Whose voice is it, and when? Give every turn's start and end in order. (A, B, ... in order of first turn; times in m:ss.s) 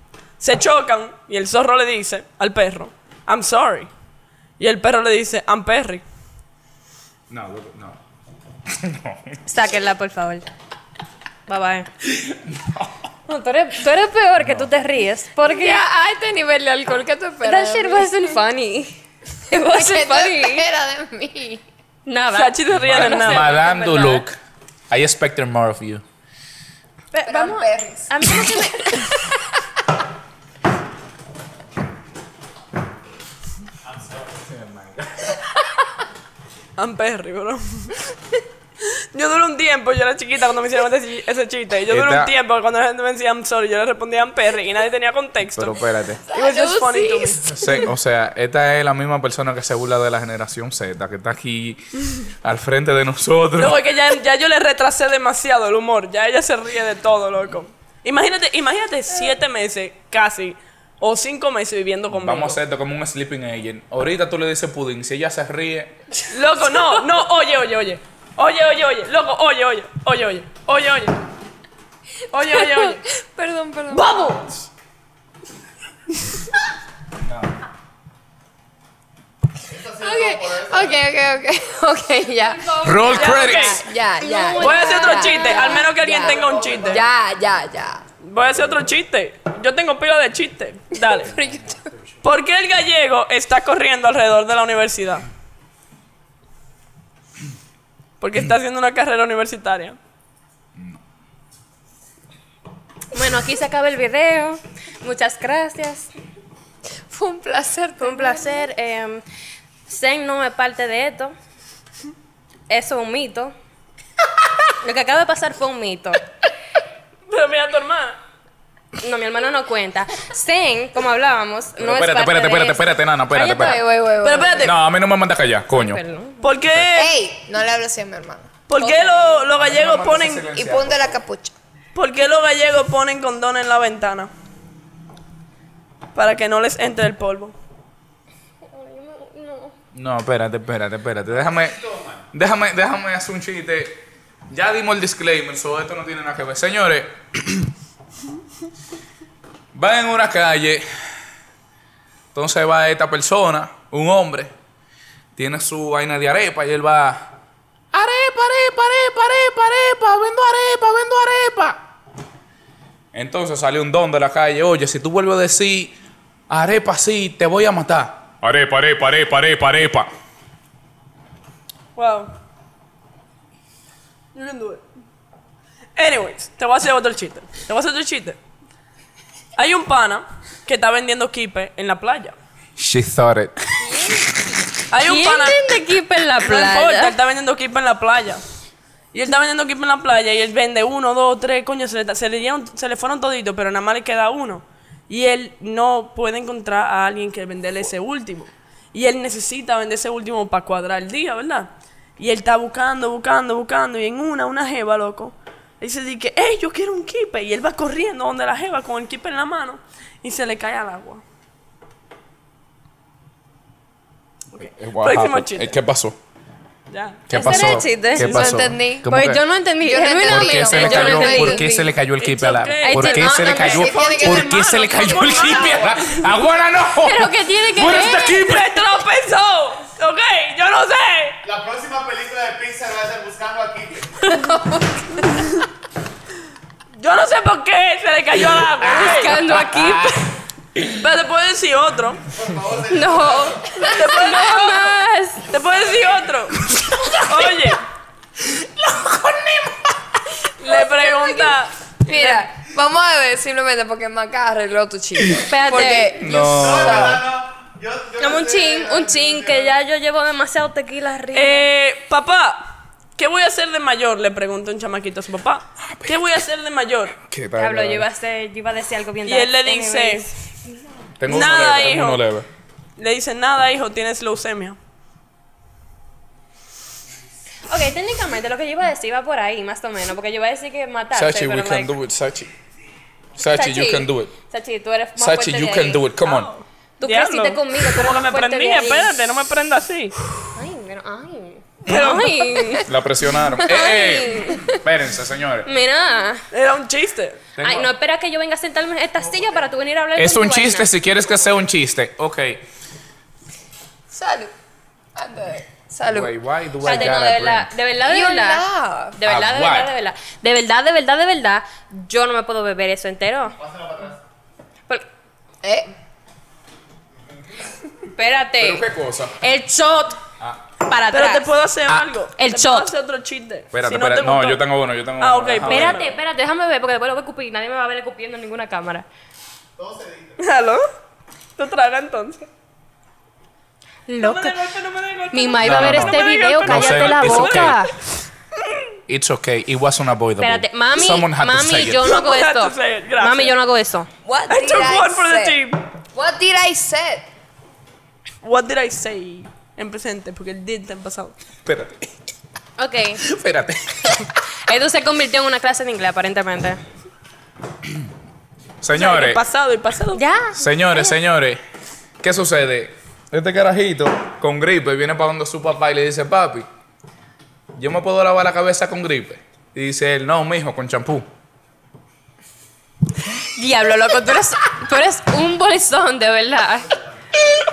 0:00.4-0:03.9 A
0:04.6-0:06.0 A
0:07.3-0:08.0 B
0:08.7-0:09.4 B
0:09.4-0:10.4 C
0:11.5-0:11.9 C
0:12.2-0:12.9 B
0:13.3-0:15.8 C
0:14.4-0:14.7 B
0:15.4-0:18.1 D
0:17.4-0:18.9 C
0:19.5-0:20.6 C
0:19.5-0:21.6 D
0:22.0-0:24.2 C
0:22.3-0:23.6 A
0:22.7-0:24.4 B
0:24.9-0:26.0 B
0:27.1-0:29.2 C
0:27.2-0:28.5 D
0:33.8-0:34.4 E
0:34.5-0:35.4 B
0:36.8-0:38.1 A
0:38.8-0:45.8 A
0:41.9-0:42.3 B
0:45.6-0:46.2 B
0:46.3-0:47.9 D
0:46.3-0:47.6 A
0:47.4-0:53.8 B
0:53.6-1:02.6 A
1:02.1-1:06.0 B
1:06.3-1:11.2 A
1:12.3-1:13.0 A
1:12.5-1:14.4 D
1:13.9-1:14.6 A
1:17.2-1:17.5 B
1:19.7-1:21.0 E
1:20.0-1:28.0 D
1:22.7-1:23.3 C
1:22.8-1:23.8 B
1:23.2-1:23.8 A
1:24.2-1:26.0 C
1:24.6-1:27.0 A
1:26.2-1:27.0 E
1:28.2-1:31.3 A
1:31.1-1:31.8 D
1:32.2-1:35.2 A
1:38.2-1:40.0 A
1:40.8-1:41.0 B
1:43.1-1:46.1 C
1:47.1-1:48.6 D
1:48.0-1:49.2 C
1:49.9-1:51.3 C
1:52.7-1:53.5 C
1:54.8-1:56.2 C
1:57.3-1:58.2 A
1:59.0-2:03.8 C
2:01.8-2:03.8 B
2:03.4-2:04.7 D
2:04.2-2:04.7 A
2:04.6-2:06.0 B
2:05.7-2:06.5 C
2:06.4-2:07.1 A
2:06.9-2:08.5 D
2:08.7-2:10.5 A
2:08.8-2:09.4 C
2:09.5-2:11.2 B
2:10.5-2:11.5 D
2:11.9-2:14.3 A
2:16.1-2:17.5 A
2:18.6-2:19.7 C
2:19.9-2:21.8 B
2:21.4-2:22.2 E
2:22.3-2:27.7 B
2:29.7-2:30.8 B
2:32.3-2:34.5 B
2:35.4-2:37.4 B
2:37.9-2:41.8 B
2:43.1-2:46.0 B
2:46.5-2:50.1 B
2:52.0-2:52.3 A
2:54.3-2:54.8 A
2:56.0-2:58.4 A
2:59.6-3:02.3 A
3:02.8-3:03.9 B
3:04.9-3:05.8 A
3:05.0-3:07.1 C
3:06.4-3:08.4 A
3:09.1-3:31.2 A
3:34.6-3:36.2 B
3:35.0-3:35.7 A
3:36.9-3:37.3 A
3:37.3-3:39.4 B
3:37.3-3:38.4 C
3:38.1-3:39.1 D
3:39.0-3:41.8 C
3:39.8-3:41.8 D
3:40.2-3:48.7 B
3:42.2-3:46.2 A
3:42.8-3:43.9 C
3:43.2-3:46.1 D
3:47.0-3:48.6 C
3:48.2-3:51.4 A
3:51.4-3:54.1 E
3:54.3-3:55.4 D
3:57.0-3:59.4 A
3:58.6-4:00.2 B
3:58.8-4:00.3 C
4:00.9-4:02.2 A
4:02.3-4:03.8 E
4:02.9-4:05.5 C
4:03.8-4:05.0 A
4:05.5-4:07.8 A
4:08.6-4:09.8 B
4:10.6-4:12.4 A
4:10.7-4:11.5 D
4:12.0-4:17.2 D
4:15.4-4:16.2 C
4:16.1-4:17.2 B
4:16.4-4:19.7 E
4:18.2-4:21.7 C
4:21.3-4:27.2 A
4:25.8-4:26.2 B
4:27.2-4:28.0 B
4:27.6-4:30.3 C
4:29.2-4:30.3 A
4:31.2-4:32.5 B
4:31.3-4:32.2 A
4:33.0-4:34.8 A
4:37.7-4:41.9 C
4:41.1-4:42.5 B
4:43.4-4:44.3 B
4:43.4-4:46.0 C
4:45.2-4:46.5 B
4:46.2-4:50.2 A
4:47.0-4:49.1 C
4:50.5-4:52.9 C
4:51.9-4:52.5 A
4:52.8-4:55.7 B
4:53.6-4:54.6 C
4:55.6-4:56.4 C
4:56.5-4:57.4 A
4:57.6-4:57.9 B
4:57.6-5:00.9 C
5:00.2-5:02.6 B
5:04.1-5:04.5 D
5:05.1-5:06.3 D
5:06.1-5:07.7 B
5:06.8-5:08.6 C
5:08.1-5:09.2 D
5:09.1-5:13.6 C
5:09.2-5:09.9 B
5:13.6-5:14.2 E
5:15.6-5:15.9 D
5:18.1-5:18.8 C
5:18.6-5:19.3 B
5:19.4-5:20.2 C
5:20.8-5:22.9 C
5:21.1-5:24.6 A
5:23.7-5:26.0 B
5:25.2-5:26.1 A
5:25.6-5:29.0 C
5:29.8-5:30.4 E
5:30.4-5:30.8 A
5:31.6-5:32.4 A
5:34.1-5:34.6 C
5:34.2-5:37.8 A
5:35.3-5:37.9 C
5:35.6-5:37.8 B
5:39.1-5:42.0 B
5:40.4-5:44.1 C
5:42.0-5:43.5 A
5:44.2-5:45.6 D
5:44.5-5:45.8 A
5:46.1-5:47.2 D
5:48.4-5:51.3 A
5:51.6-5:52.1 B
5:52.8-5:53.2 C
5:53.2-5:54.2 B
5:54.7-5:56.8 C
5:58.8-5:59.4 B
5:58.9-6:00.2 A
6:00.1-6:01.1 C
6:00.5-6:01.6 B
6:02.2-6:06.7 B
6:07.8-6:11.3 B
6:13.4-6:16.9 C